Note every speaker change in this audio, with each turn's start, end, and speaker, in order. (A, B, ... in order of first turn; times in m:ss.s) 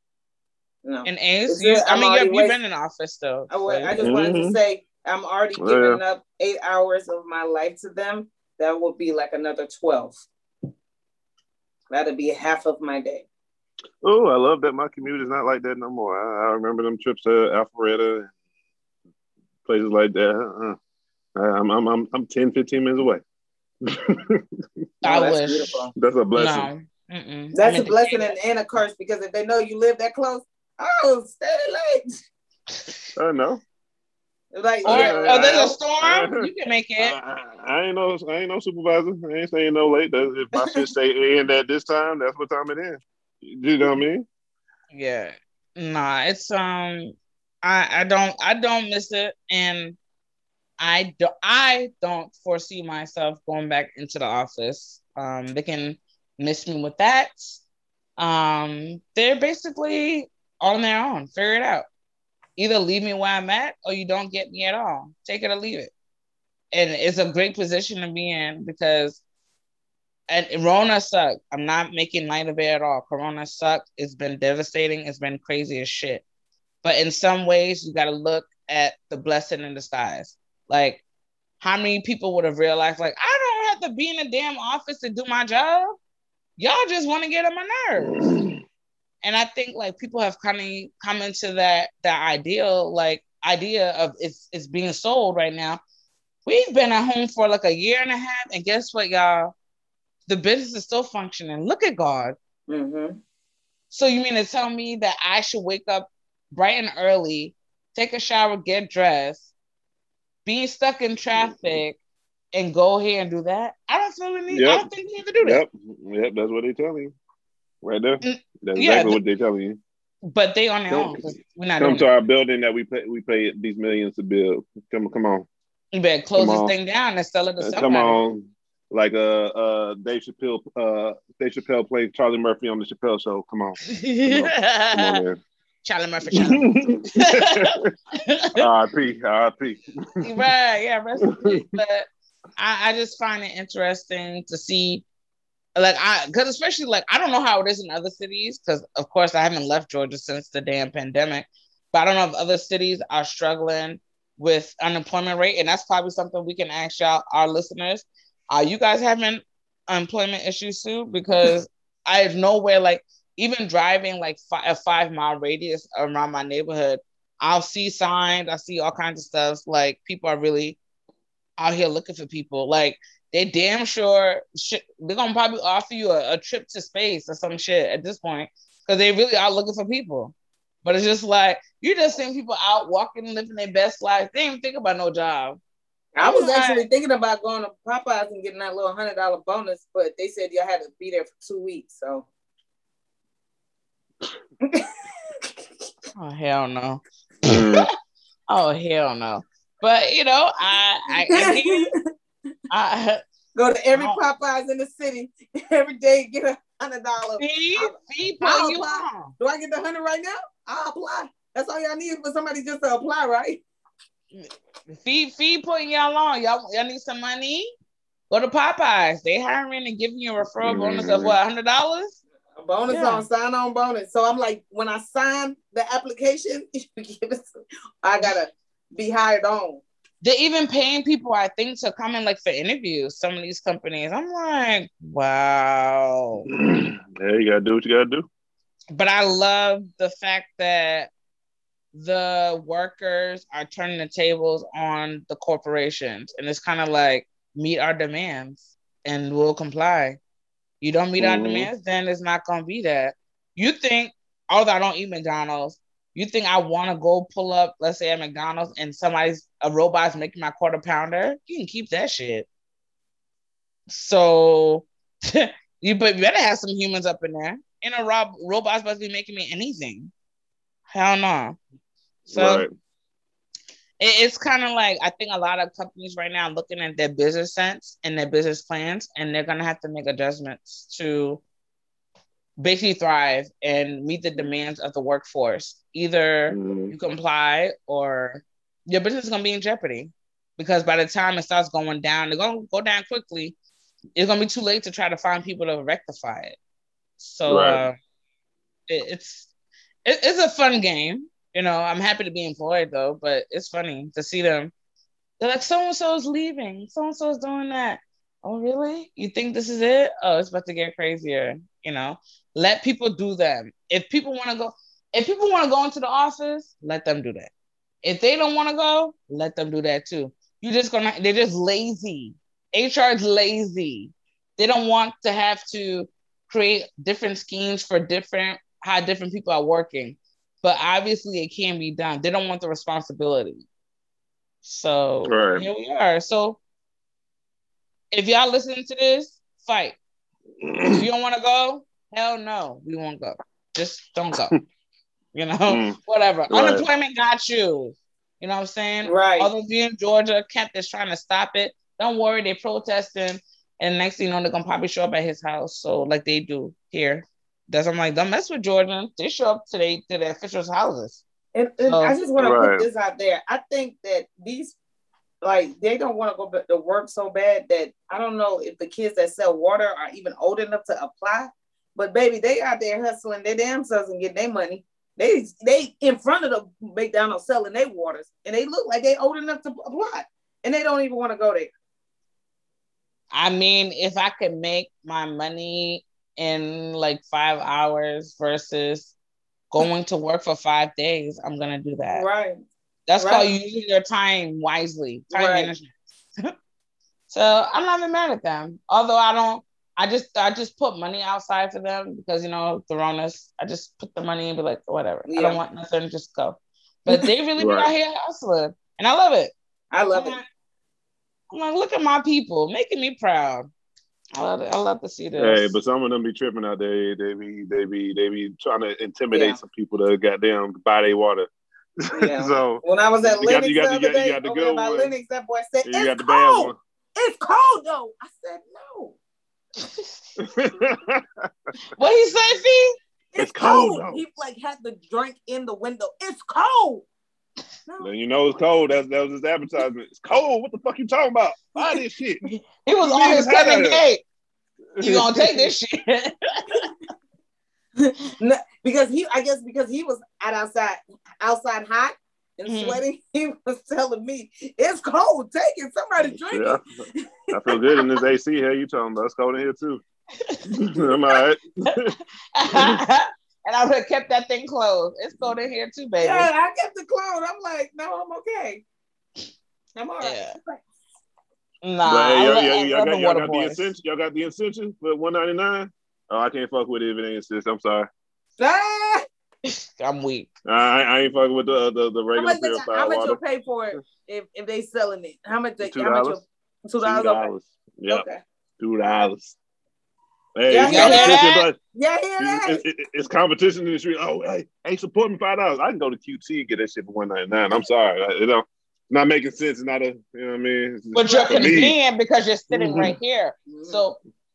0:00.8-0:02.6 A
0:01.0-0:04.0 B
0:03.5-0:10.2 A
0:04.0-0:04.6 C
0:05.6-0:06.0 C
0:11.9-0:13.2 A
0:14.0-0:18.3 C
0:19.6-0:20.8 C
0:21.4-0:23.2 C
0:23.8-0:24.4 C
0:25.0-0:25.8 B
0:25.0-0:25.9 A
0:25.9-0:26.7 C
0:26.4-0:28.4 B
0:27.5-0:32.1 A
0:33.2-0:33.6 C
0:34.5-0:35.8 A
0:34.8-0:44.2 C
0:34.8-0:37.2 B
0:40.6-0:40.8 A
0:44.9-0:50.0 B
0:50.8-0:57.6 B
0:58.2-1:01.9 B
1:02.6-1:05.9 B
1:06.7-1:09.2 B
1:10.3-1:16.2 B
1:16.8-1:21.0 B
1:21.6-1:25.9 B
1:26.6-1:28.4 B
1:28.1-1:28.6 C
1:29.2-1:35.8 B
1:36.4-1:39.5 B
1:40.3-1:42.4 B
1:42.7-1:43.2 A
1:43.9-1:49.5 B
1:50.4-1:52.0 B
1:52.5-1:55.6 B
1:54.5-1:54.9 C
1:55.4-1:57.1 C
1:57.8-1:59.8 C
1:58.2-1:59.2 B
2:00.2-2:02.1 B
2:00.9-2:05.5 C
2:05.9-2:08.2 B
2:06.4-2:06.7 C
2:07.6-2:15.4 C
2:13.9-2:15.2 B
2:15.8-2:18.7 B
2:16.3-2:17.9 C
2:18.6-2:20.2 C
2:20.2-2:25.0 B
2:21.3-2:21.6 C
2:25.8-2:50.8 B
2:51.6-3:05.6 B
3:06.2-3:12.3 A
3:06.2-3:06.8 B
3:16.2-3:17.9 B
3:17.4-3:17.9 C
3:18.5-3:21.8 B
3:21.2-3:22.0 A
3:22.7-3:23.2 B
3:23.5-3:33.6 A
3:23.9-3:24.2 B
3:27.4-3:29.3 B
3:34.3-3:37.7 B
3:38.3-3:42.1 B
3:40.6-3:41.4 C
3:42.6-3:49.8 A
3:42.9-3:43.2 B
3:50.2-3:56.5 B
3:56.5-3:58.2 C
3:58.9-4:01.1 B
4:01.9-4:10.2 B
4:10.8-4:22.5 B
4:11.2-4:11.7 C
4:23.9-4:30.1 B
4:30.9-4:31.6 B
4:32.3-4:32.7 C
4:32.3-4:32.6 B
4:34.0-4:41.4 B
4:42.6-4:53.6 B
4:46.5-4:46.9 C
4:54.2-4:56.6 B
4:57.2-4:58.0 B
4:57.5-4:57.8 C
4:58.9-4:59.5 B
5:00.0-5:04.7 B
5:05.4-5:17.5 B
5:18.0-5:33.6 B
5:34.6-5:36.6 B
5:35.2-5:35.6 C
5:38.1-5:40.0 B
5:40.6-5:41.1 C
5:40.9-5:44.6 B
5:45.3-6:01.2 B
5:45.7-5:46.0 C
5:46.5-5:46.8 C
5:49.0-5:49.5 A
6:01.5-6:04.8 A
6:01.8-6:02.2 B
6:02.4-6:02.9 C
6:05.4-6:21.7 A
6:23.3-6:29.1 B
6:29.7-6:32.2 B
6:32.1-6:32.6 A
6:33.1-6:36.5 B
6:33.2-6:33.4 A
6:35.3-6:35.7 A
6:37.3-6:49.5 B
6:45.3-6:45.6 A
6:47.6-6:47.9 C
6:49.9-6:50.4 A
6:50.1-6:50.4 B
6:51.5-6:53.7 B
6:54.3-6:55.8 B
6:55.4-7:01.5 C
6:59.3-6:59.6 A
7:02.0-7:05.1 C
7:02.2-7:09.2 A
7:05.8-7:06.8 C
7:09.8-7:10.1 B
7:10.4-7:11.2 C
7:12.0-7:13.0 B
7:13.3-7:17.0 A
7:13.4-7:14.2 C
7:18.0-7:22.4 C
7:22.8-7:24.2 B
7:23.0-7:24.0 C
7:25.0-7:25.7 C
7:25.0-7:26.9 B
7:28.0-7:38.2 A
7:32.6-7:33.0 B
7:36.5-7:36.8 C
7:37.5-7:40.0 C
7:40.4-7:40.7 B
7:40.7-7:42.1 C
7:42.5-7:46.5 B
7:42.7-7:43.0 C
7:46.2-7:48.8 A
7:50.0-7:50.8 A
7:50.2-7:50.6 B
7:51.8-7:53.9 B
7:52.0-7:58.1 C
7:58.6-7:59.2 A
7:59.7-8:00.5 B
8:00.6-8:03.4 C
8:02.3-8:07.5 A
8:05.8-8:06.4 C
8:07.0-8:08.2 C
8:08.1-8:08.4 A
8:08.8-8:09.6 C
8:10.6-8:11.8 C
8:10.7-8:11.4 A
8:10.8-8:11.7 B
8:11.9-8:12.8 A
8:12.4-8:22.0 C
8:21.1-8:24.2 B
8:21.2-8:21.8 A
8:22.7-8:23.2 C
8:23.7-8:24.0 A